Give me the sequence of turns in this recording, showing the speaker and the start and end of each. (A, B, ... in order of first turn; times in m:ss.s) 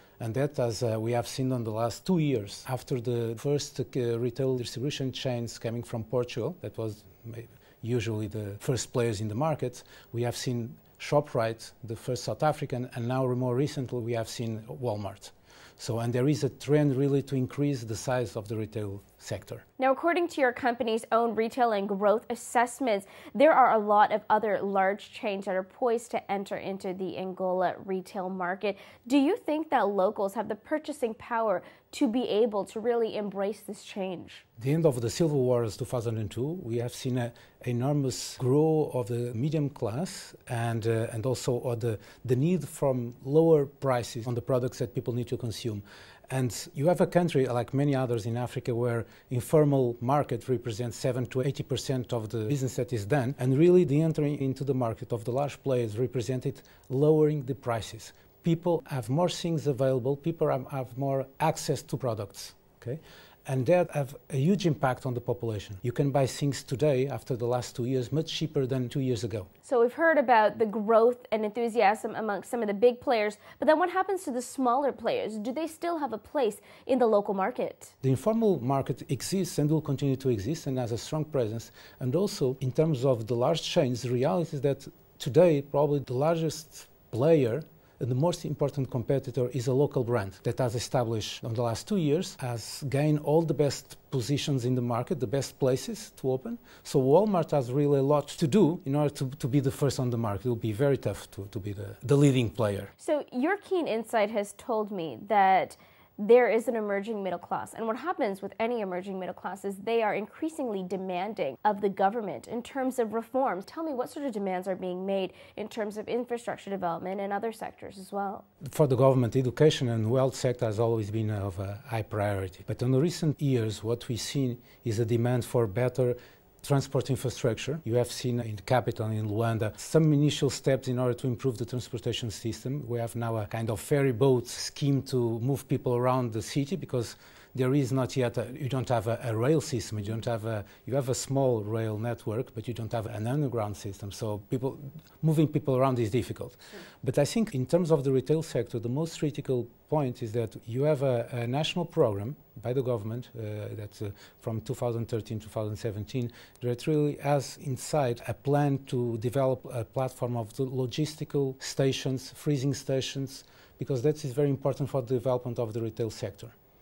0:00.2-0:19.6 A
0:19.8-0:34.4 B
0:34.6-1:09.5 A
1:09.6-1:17.9 B
1:18.0-1:42.9 A
1:43.0-1:58.4 B
1:58.6-2:46.5 A